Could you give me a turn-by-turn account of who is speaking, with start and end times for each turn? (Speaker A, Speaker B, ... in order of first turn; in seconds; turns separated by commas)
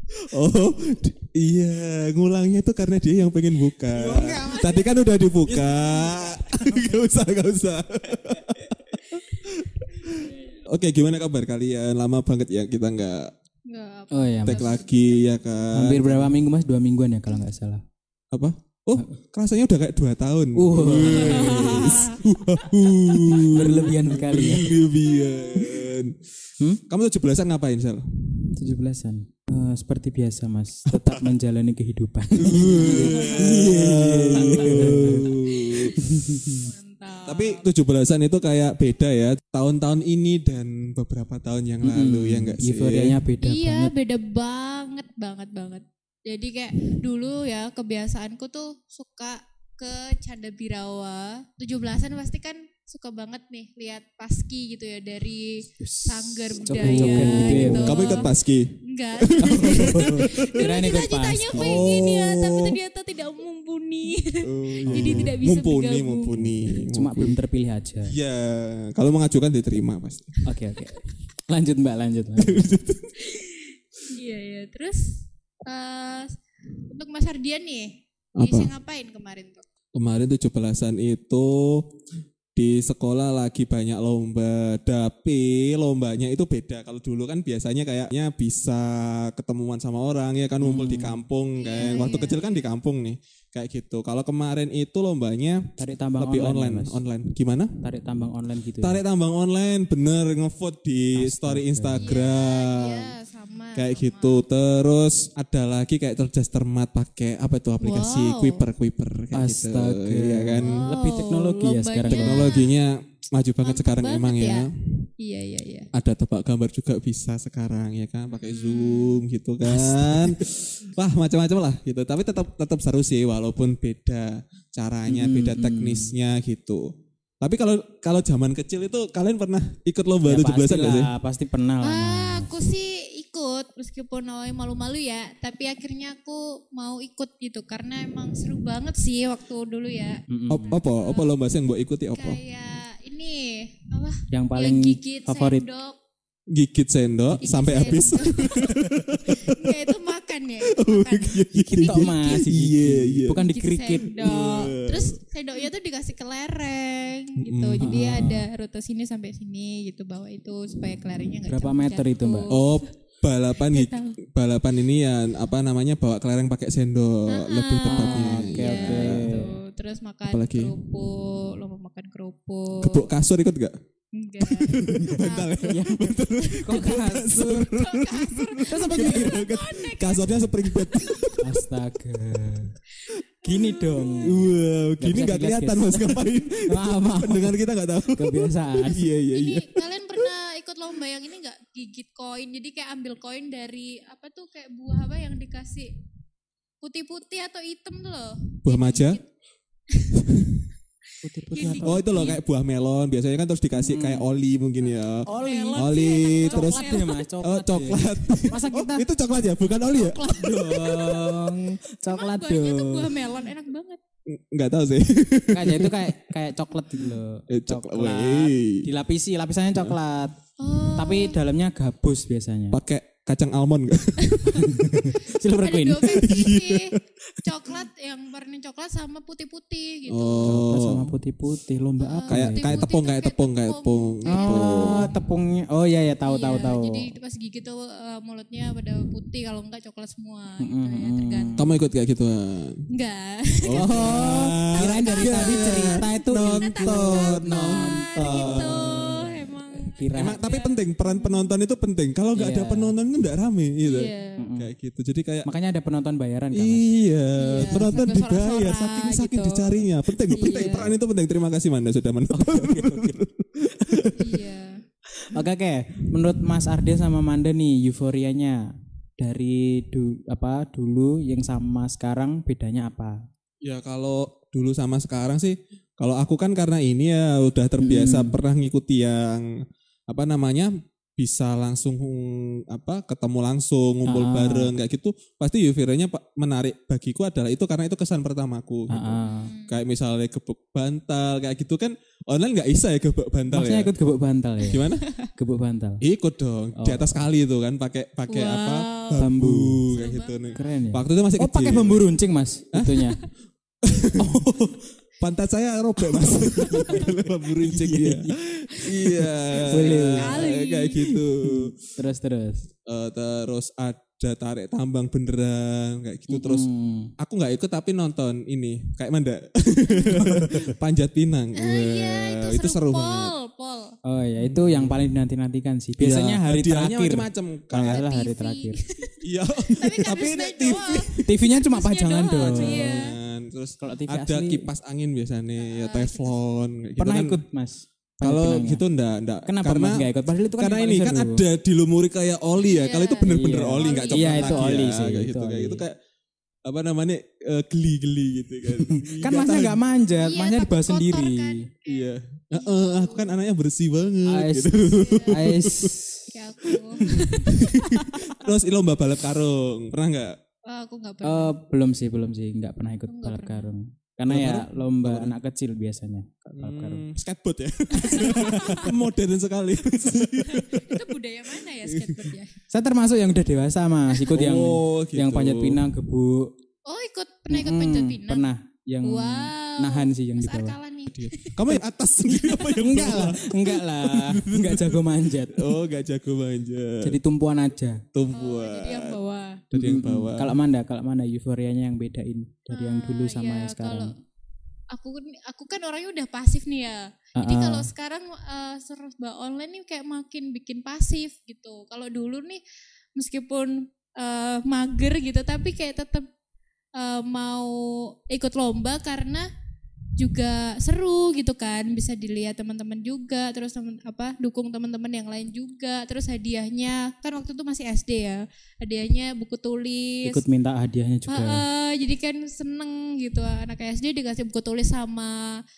Speaker A: 0.3-13.3, Speaker B: 3.9-6.9, Speaker C: 13.7-15.2, Speaker B: 14.1-14.8, Speaker A: 14.5-16.4, Speaker B: 15.7-17.8, Speaker A: 18.3-26.2, Speaker B: 20.6-22.1, Speaker C: 21.1-22.2, Speaker B: 23.2-24.8, Speaker C: 25.1-25.8, Speaker A: 26.9-28.6, Speaker B: 28.6-36.6, Speaker A: 30.9-31.3, Speaker A: 32.4-36.5, Speaker C: 32.9-33.4, Speaker C: 35.5-35.9, Speaker C: 36.5-37.6, Speaker A: 37.3-43.2, Speaker B: 41.8-43.9, Speaker C: 43.4-66.5, Speaker B: 55.8-58.3, Speaker A: 56.6-60.7, Speaker B: 59.4-61.9, Speaker A: 61.5-62.8, Speaker A: 64.4-67.4, Speaker B: 64.9-65.3, Speaker B: 66.7-68.2, Speaker A: 68.0-70.4, Speaker B: 70.5-72.8, Speaker A: 72.4-73.2, Speaker C: 73.2-76.4, Speaker C: 76.9-79.6, Speaker A: 78.4-78.7, Speaker A: 80.0-82.0, Speaker A: 82.5-97.8, Speaker B: 90.6-91.2, Speaker C: 91.6-92.4, Speaker B: 95.8-97.0, Speaker B: 97.8-99.0, Speaker A: 98.8-103.1, Speaker B: 101.2-102.1, Speaker C: 102.0-104.4, Speaker A: 103.8-111.0, Speaker C: 107.8-108.7, Speaker B: 109.3-112.5, Speaker C: 110.6-112.8, Speaker A: 112.1-115.1, Speaker C: 113.6-115.9, Speaker A: 115.9-131.1, Speaker C: 118.3-119.2, Speaker B: 119.7-120.4, Speaker B: 125.1-126.1, Speaker B: 130.2-132.5, Speaker C: 131.8-140.2, Speaker B: 140.3-140.8, Speaker A: 140.5-142.4, Speaker C: 140.8-141.4, Speaker C: 142.2-146.0, Speaker B: 144.3-145.6, Speaker A: 146.5-149.9, Speaker C: 147.4-148.7, Speaker B: 147.9-149.0, Speaker C: 149.3-152.4, Speaker A: 150.7-153.5, Speaker B: 151.6-154.4, Speaker C: 153.5-162.9, Speaker A: 154.1-155.2, Speaker A: 157.4-158.3, Speaker B: 157.8-158.5, Speaker B: 161.5-162.5, Speaker A: 162.5-169.4, Speaker C: 163.6-164.2, Speaker C: 167.3-173.1, Speaker B: 167.9-169.6, Speaker A: 170.3-170.8, Speaker A: 172.8-173.8, Speaker C: 174.1-175.8, Speaker A: 174.4-181.6, Speaker B: 174.8-177.8, Speaker C: 176.7-177.0, Speaker C: 177.6-181.4, Speaker B: 178.7-179.5, Speaker B: 181.4-182.8, Speaker C: 183.0-184.4, Speaker B: 183.4-184.5, Speaker A: 184.2-190.3, Speaker B: 185.0-187.6, Speaker B: 188.1-189.0, Speaker C: 189.3-195.9, Speaker C: 196.8-199.2, Speaker A: 198.6-199.2, Speaker C: 199.9-200.3, Speaker A: 200.1-200.6, Speaker B: 201.2-202.4, Speaker C: 201.5-202.0, Speaker A: 201.6-211.5, Speaker B: 203.8-204.3, Speaker C: 204.9-207.3, Speaker B: 205.3-209.1, Speaker B: 209.9-213.2, Speaker C: 212.1-214.0, Speaker A: 214.3-216.2, Speaker B: 215.5-220.4, Speaker A: 217.0-218.9, Speaker C: 220.6-221.4, Speaker B: 221.0-222.8, Speaker A: 222.7-225.1, Speaker C: 224.2-224.7, Speaker B: 224.5-226.3, Speaker C: 225.3-230.6, Speaker A: 226.1-227.0, Speaker A: 230.1-231.1, Speaker B: 230.4-232.8, Speaker C: 232.0-235.2, Speaker A: 232.3-235.1, Speaker B: 234.3-237.1, Speaker C: 236.2-241.7, Speaker B: 240.6-241.7, Speaker A: 241.6-242.8, Speaker C: 242.9-251.5, Speaker A: 243.6-249.2, Speaker B: 243.7-250.4, Speaker A: 250.1-255.5, Speaker B: 252.4-252.9, Speaker C: 253.8-254.4, Speaker B: 254.4-254.7, Speaker B: 255.4-256.9, Speaker A: 256.5-264.4, Speaker C: 257.4-260.9, Speaker B: 257.5-258.0, Speaker B: 262.3-264.1, Speaker C: 264.2-264.8, Speaker B: 265.2-273.2, Speaker A: 273.6-279.5, Speaker B: 277.8-278.4, Speaker A: 280.1-293.9, Speaker B: 284.1-284.7, Speaker B: 288.9-289.5, Speaker C: 289.3-289.8, Speaker B: 293.5-296.0, Speaker A: 294.6-295.1, Speaker C: 295.0-295.3, Speaker A: 296.0-302.0, Speaker B: 296.8-297.3, Speaker C: 298.3-299.3, Speaker B: 299.2-299.8, Speaker C: 299.9-300.6, Speaker B: 300.6-303.2, Speaker A: 302.7-303.1, Speaker A: 303.8-304.5, Speaker B: 304.2-304.9, Speaker A: 305.2-311.8, Speaker B: 306.7-308.4, Speaker C: 306.7-307.0, Speaker C: 308.8-311.1, Speaker B: 309.7-310.5, Speaker B: 311.4-312.7, Speaker A: 312.9-316.7, Speaker B: 316.3-317.1, Speaker A: 317.2-323.3, Speaker B: 320.1-320.7, Speaker C: 321.6-323.9, Speaker B: 324.1-328.8, Speaker A: 324.4-325.0, Speaker A: 326.0-328.0, Speaker C: 327.8-329.2, Speaker A: 329.2-331.3, Speaker C: 329.8-333.2, Speaker B: 331.2-333.1, Speaker A: 332.4-337.4, Speaker B: 333.8-334.7, Speaker C: 335.6-336.3, Speaker B: 337.0-338.8, Speaker A: 338.2-346.0, Speaker B: 339.4-341.4, Speaker C: 342.6-344.8, Speaker B: 343.3-345.8, Speaker A: 346.6-349.8, Speaker B: 348.8-351.7, Speaker C: 350.2-353.4, Speaker A: 351.9-355.9, Speaker B: 354.3-354.8, Speaker C: 354.8-355.5, Speaker B: 355.3-356.3, Speaker C: 356.3-358.1, Speaker A: 356.6-360.4, Speaker B: 357.0-358.3, Speaker C: 360.7-361.5, Speaker B: 361.2-367.1, Speaker C: 363.1-363.7, Speaker A: 364.3-365.3, Speaker A: 366.5-371.0, Speaker C: 368.0-368.9, Speaker B: 368.1-368.7, Speaker C: 370.4-372.6, Speaker A: 371.8-372.4, Speaker B: 372.7-376.6, Speaker A: 374.3-375.8, Speaker C: 376.9-378.5, Speaker B: 377.5-380.8, Speaker C: 379.0-381.7, Speaker A: 381.1-387.2, Speaker C: 382.3-382.7, Speaker B: 382.7-385.8, Speaker B: 387.0-388.0, Speaker A: 388.1-389.2, Speaker C: 388.3-389.6, Speaker A: 389.7-390.6, Speaker B: 389.7-394.1, Speaker C: 392.7-394.1, Speaker C: 394.9-402.6, Speaker B: 397.4-397.9, Speaker C: 403.2-406.3, Speaker C: 407.0-409.5, Speaker C: 410.2-420.4, Speaker B: 420.2-421.6, Speaker C: 421.3-425.6